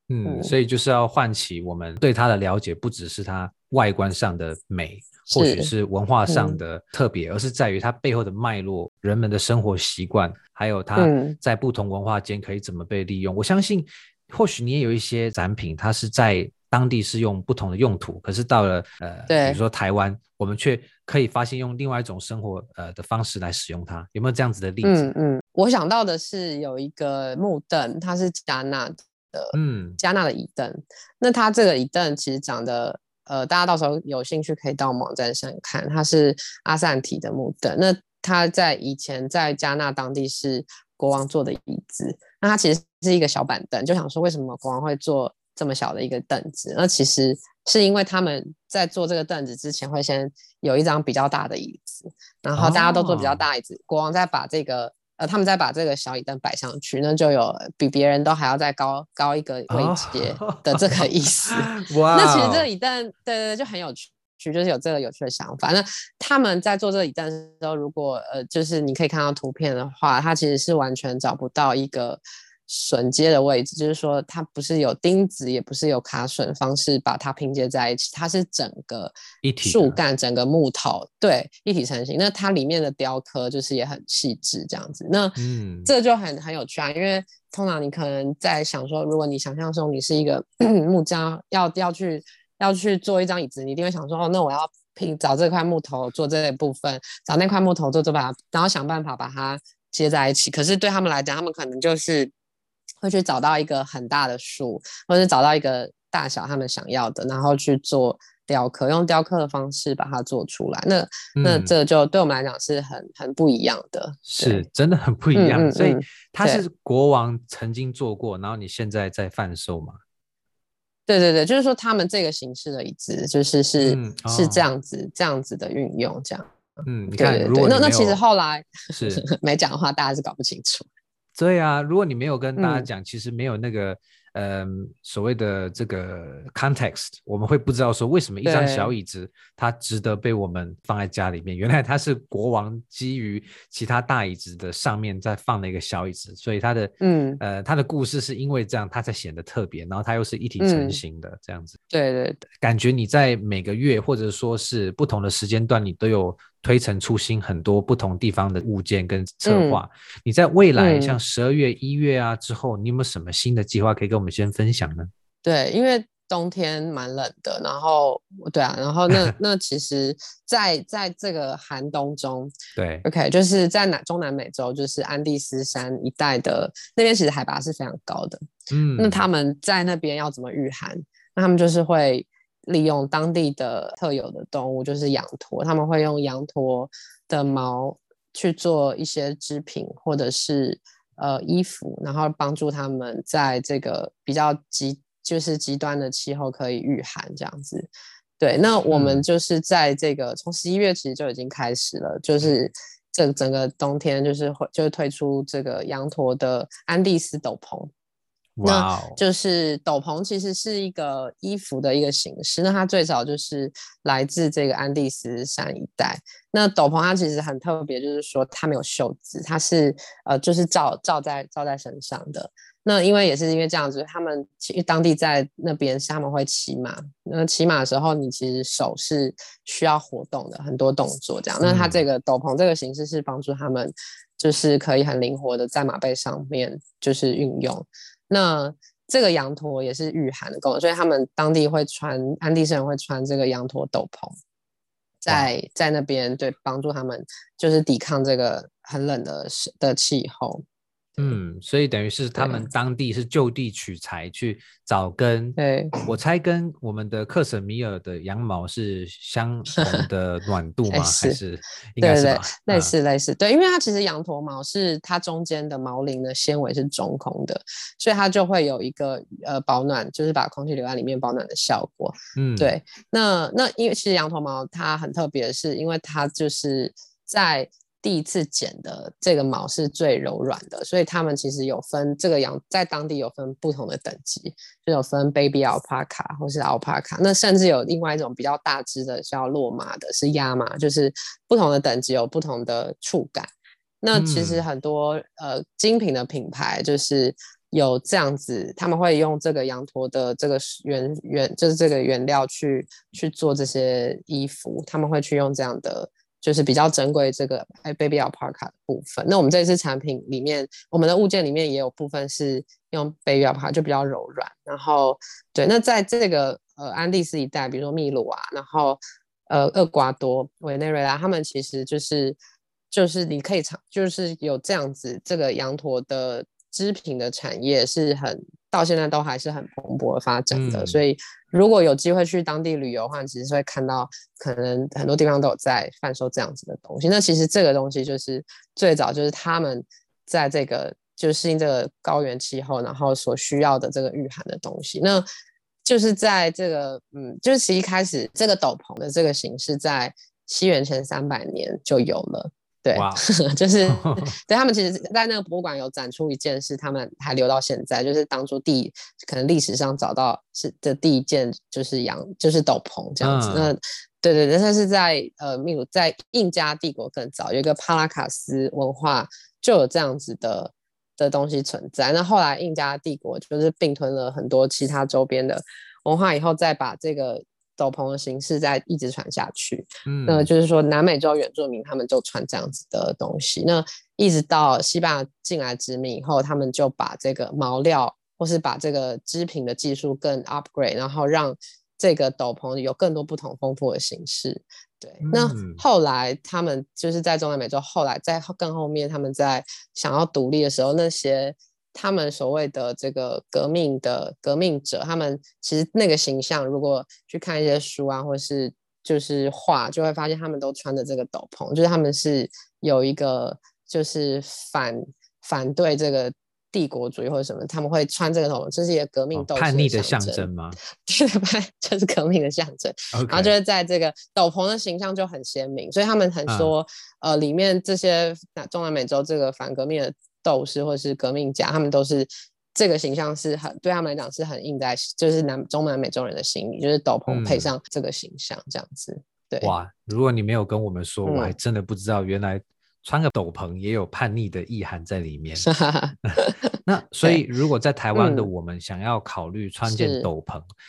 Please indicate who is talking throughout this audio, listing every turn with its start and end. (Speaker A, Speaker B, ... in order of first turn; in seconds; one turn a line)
Speaker A: 0.1-25.1
Speaker B: 0.2-0.5
Speaker B: 5.3-5.7
Speaker B: 6.3-6.6
Speaker B: 11.0-11.4
Speaker B: 19.3-19.6
Speaker B: 24.8-102.3
Speaker A: 29.5-30.0
Speaker A: 52.6-53.5
Speaker A: 59.7-62.7
Speaker A: 79.4-80.0
Speaker A: 85.4-85.9
Speaker B: 103.0-114.7
Speaker A: 111.4-111.7
Speaker A: 114.3-120.0
Speaker B: 115.3-116.6
Speaker B: 121.1-130.9
Speaker A: 123.8-124.7
Speaker A: 126.8-128.2
Speaker A: 128.9-129.2
Speaker A: 131.4-151.8
Speaker B: 132.6-132.9
Speaker B: 138.4-138.9
Speaker B: 147.0-147.4
Speaker B: 150.6-151.0
Speaker B: 151.9-152.4
Speaker A: 152.6-165.1
Speaker B: 159.4-159.8
Speaker B: 160.8-161.2
Speaker B: 165.4-178.4
Speaker A: 172.8-173.1
Speaker A: 178.7-179.3
Speaker B: 179.0-207.9
Speaker A: 198.9-199.2
Speaker A: 208.6-209.2
Speaker B: 208.6-244.4
Speaker A: 231.6-232.0
Speaker B: 245.2-250.6
Speaker A: 251.2-262.9
Speaker B: 252.4-252.7
Speaker B: 255.6-256.0
Speaker B: 260.9-261.4
Speaker B: 262.0-293.5
Speaker A: 272.4-272.7
Speaker B: 294.0-322.4
Speaker A: 294.1-294.6
Speaker B: 322.9-345.3
Speaker A: 330.5-331.0
Speaker B: 345.9-439.7
Speaker A: 352.9-353.2
Speaker A: 353.9-354.3
Speaker A: 363.2-363.7
Speaker A: 380.1-380.5
Speaker A: 395.2-395.8
Speaker A: 419.3-420.8
Speaker A: 423.1-423.5
Speaker A: 426.5-426.7
Speaker A: 437.3-437.7
Speaker A: 439.6-445.7
Speaker B: 441.2-441.6
Speaker B: 445.6-446.7
Speaker A: 446.2-450.6
Speaker B: 448.1-448.5
Speaker B: 449.9-450.3